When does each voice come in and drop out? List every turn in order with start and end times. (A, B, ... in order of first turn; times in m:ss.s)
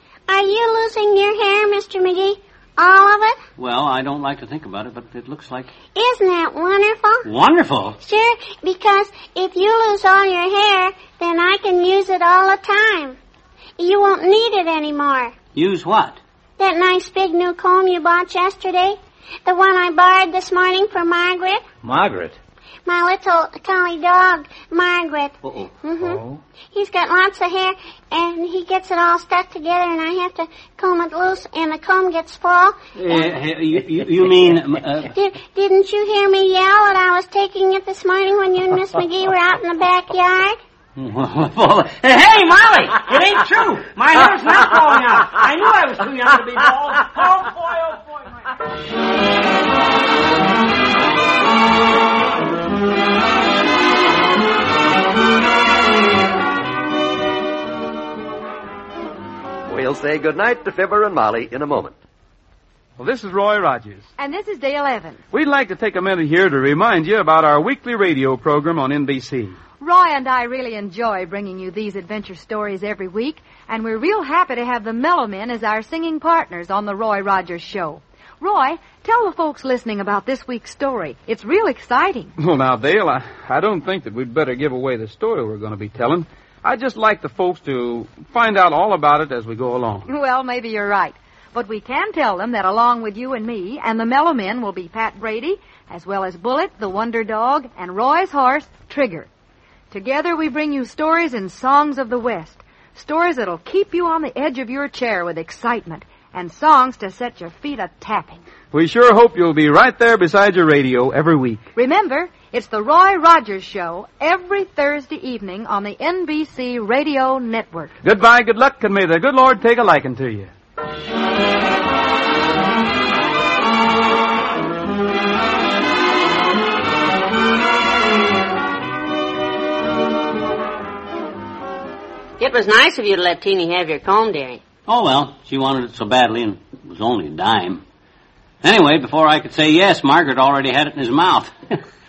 0:00.3-0:03.4 A
0:03.6-0:05.7 B
0:05.9-0:07.3 A
0:07.2-0:08.0 B
0:08.0-0:13.2 A
0:13.8-0:15.3 A
0:15.6-0:16.2 B
0:16.6-0:21.6 A
0:21.8-0:22.4 C
0:22.8-0:26.2 A
0:25.4-0:25.7 B
0:26.0-0:26.4 C
0:26.7-0:32.8 A
0:33.0-0:35.2 B
0:35.1-0:40.6 A
0:41.0-0:47.4 B
0:43.1-0:47.5 C
0:59.7-1:02.0 D
1:03.0-1:04.0 E
1:04.2-1:05.2 F
1:05.3-1:09.6 E
1:09.8-1:22.4 F
1:22.4-1:30.1 E
1:30.1-1:39.3 F
1:39.9-1:48.4 F
1:48.7-1:51.7 E
1:51.8-1:58.0 F
1:58.0-2:00.5 E
2:12.4-2:14.6 G
2:14.9-2:17.8 B
2:18.6-2:21.8 B